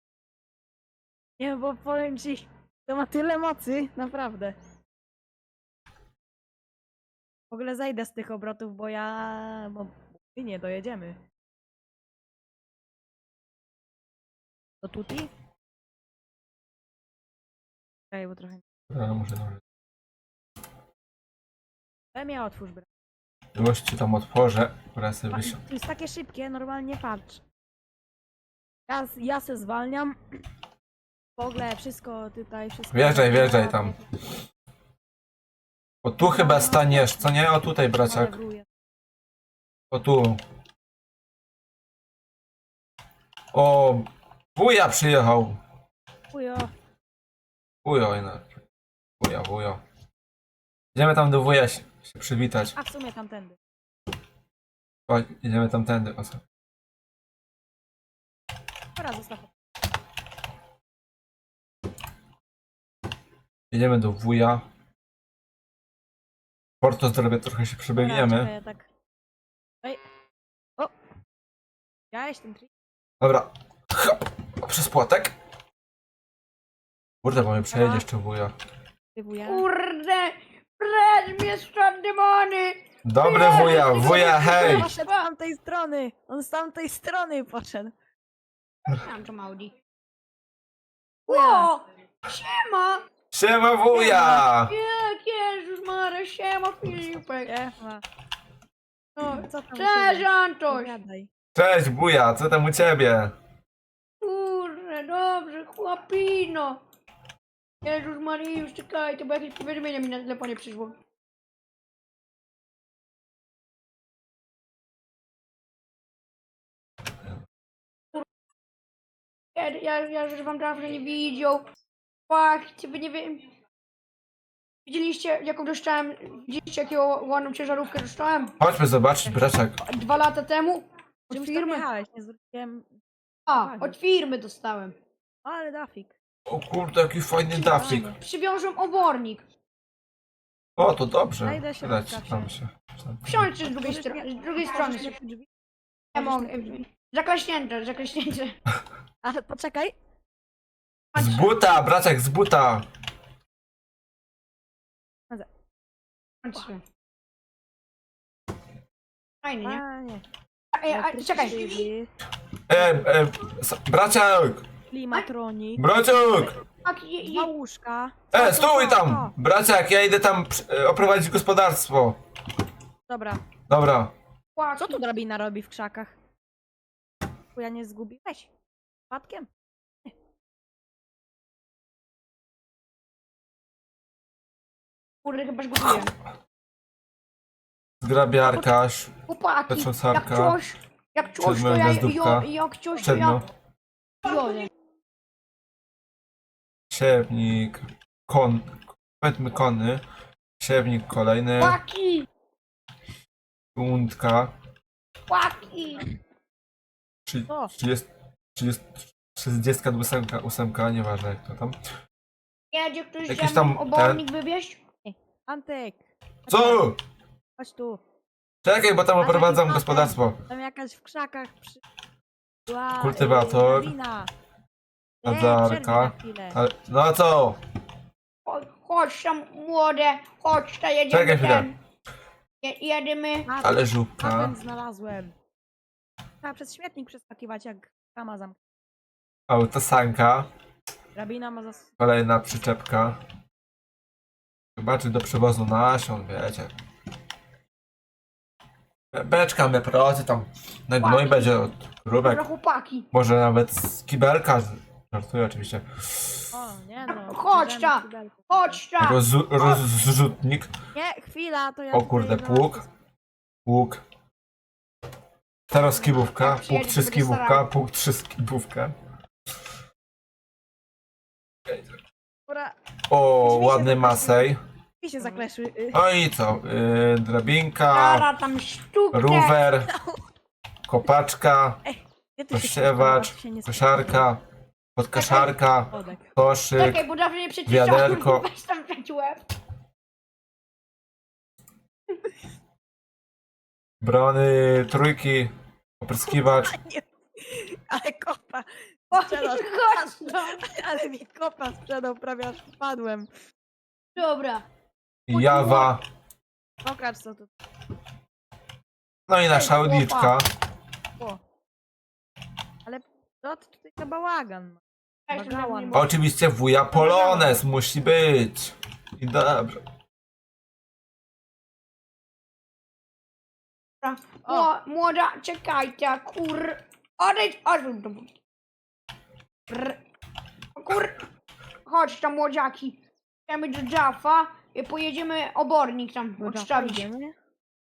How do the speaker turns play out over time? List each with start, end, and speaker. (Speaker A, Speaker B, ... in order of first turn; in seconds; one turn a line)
Speaker A: 1.4-4.5
Speaker A: 7.5-11.2
Speaker A: 14.8-15.3
Speaker A: 18.1-18.6
Speaker B: 18.9-19.6
Speaker A: 22.1-22.9
Speaker B: 23.5-25.6
Speaker A: 25.3-27.4
Speaker A: 28.9-30.2
Speaker A: 31.4-34.0
Speaker B: 32.9-33.9
Speaker B: 36.0-38.3
Speaker A: 36.2-38.6
Speaker B: 39.9-40.4
Speaker B: 43.5-45.6
Speaker A: 46.3-46.7
Speaker B: 47.8-48.6
Speaker B: 49.2-49.8
Speaker B: 50.9-52.8
Speaker A: 52.8-53.6
Speaker B: 55.1-56.4
Speaker A: 59.0-59.5
Speaker B: 63.7-64.7
Speaker B: 66.8-68.5
Speaker A: 67.9-68.9
Speaker A: 72.1-72.7
Speaker B: 73.2-75.4
Speaker B: 77.2-78.5
Speaker A: 77.7-78.0
Speaker A: 79.1-79.6
Speaker C: 79.4-85.1
Speaker B: 83.0-84.9
Speaker A: 83.4-87.9
Speaker C: 88.8-89.7
Speaker C: 91.2-93.0
Speaker A: 91.3-91.7
Speaker B: 93.3-94.8
Speaker A: 93.9-94.4
Speaker C: 94.1-97.5
Speaker A: 97.4-98.0
Speaker C: 99.2-100.9
Speaker A: 99.2-101.3
Speaker B: 101.5-103.3
Speaker C: 104.2-106.8
Speaker C: 107.8-111.0
Speaker C: 119.5-121.6
Speaker C: 122.3-123.5
Speaker C: 124.8-128.6
Speaker B: 128.6-129.8
Speaker C: 129.8-131.8
Speaker A: 131.3-132.9
Speaker C: 133.5-134.9
Speaker A: 133.5-133.9
Speaker A: 135.4-136.1
Speaker B: 136.5-138.1
Speaker A: 137.5-138.2
Speaker C: 138.2-139.4
Speaker B: 140.8-143.5
Speaker A: 141.4-142.5
Speaker C: 143.2-145.1
Speaker A: 143.8-145.5
Speaker C: 146.1-148.6
Speaker A: 146.1-146.7
Speaker A: 149.2-149.9
Speaker C: 151.1-151.6
Speaker B: 151.1-152.9
Speaker C: 156.4-156.8
Speaker C: 159.4-159.8
Speaker A: 159.6-160.2
Speaker C: 160.7-161.9
Speaker A: 160.9-162.1
Speaker B: 162.7-164.7
Speaker A: 164.9-165.8
Speaker B: 165.8-166.6
Speaker C: 166.8-167.5
Speaker A: 167.2-169.3
Speaker B: 168.3-172.2
Speaker A: 173.1-173.4
Speaker B: 173.7-174.1
Speaker C: 174.6-175.0
Speaker A: 174.8-176.1
Speaker A: 177.5-178.5
Speaker A: 179.1-179.5
Speaker C: 185.2-186.1
Speaker B: 188.0-189.1
Speaker C: 189.3-193.4
Speaker B: 189.7-190.6
Speaker B: 191.4-193.4
Speaker C: 194.2-194.7
Speaker B: 196.9-200.0
Speaker B: 200.6-201.8
Speaker C: 201.6-202.3
Speaker B: 203.7-204.5
Speaker C: 205.3-206.1
Speaker B: 207.2-211.8
Speaker C: 212.7-214.8
Speaker B: 213.3-214.2
Speaker A: 215.0-216.9
Speaker B: 216.5-217.0
Speaker A: 217.6-218.0
Speaker B: 218.6-220.4
Speaker A: 219.2-221.8
Speaker A: 222.7-224.3
Speaker B: 223.0-223.9
Speaker A: 225.2-226.6
Speaker B: 225.2-227.6
Speaker C: 228.4-231.7
Speaker B: 231.1-231.7
Speaker C: 232.6-233.5
Speaker A: 233.4-235.3
Speaker B: 233.6-234.5
Speaker A: 236.4-238.6
Speaker B: 239.5-240.5
Speaker A: 241.1-241.9
Speaker B: 242.0-243.2
Speaker B: 244.8-246.7
Speaker B: 249.1-252.4
Speaker C: 251.0-251.5
Speaker C: 252.2-253.1
Speaker B: 253.1-256.4
Speaker A: 256.5-258.8
Speaker C: 257.1-259.8
Speaker B: 259.0-260.7
Speaker A: 260.9-262.9
Speaker B: 261.9-262.8
Speaker B: 263.6-264.0
Speaker B: 265.7-268.9
Speaker C: 266.2-267.6
Speaker A: 272.5-272.7
Speaker B: 273.1-274.6
Speaker A: 273.4-274.5
Speaker A: 275.0-276.0
Speaker B: 275.9-278.3
Speaker C: 277.9-279.6
Speaker B: 279.1-279.9
Speaker A: 279.9-280.2
Speaker B: 280.9-281.8
Speaker A: 281.8-284.2
Speaker B: 282.5-284.4
Speaker B: 284.9-287.0
Speaker C: 285.1-285.5
Speaker A: 285.9-286.3
Speaker C: 286.8-289.4
Speaker B: 287.6-288.4
Speaker B: 294.0-296.7
Speaker A: 296.2-303.3
Speaker C: 299.1-300.6
Speaker C: 304.1-304.6
Speaker B: 305.3-306.0
Speaker C: 305.4-305.9
Speaker A: 306.8-307.5
Speaker B: 309.3-310.5
Speaker C: 309.5-310.4
Speaker A: 312.8-316.0
Speaker C: 315.3-316.1
Speaker B: 315.9-319.8
Speaker C: 324.0-328.4
Speaker C: 329.7-330.0
Speaker C: 330.8-331.2
Speaker C: 331.9-337.0
Speaker A: 336.4-337.4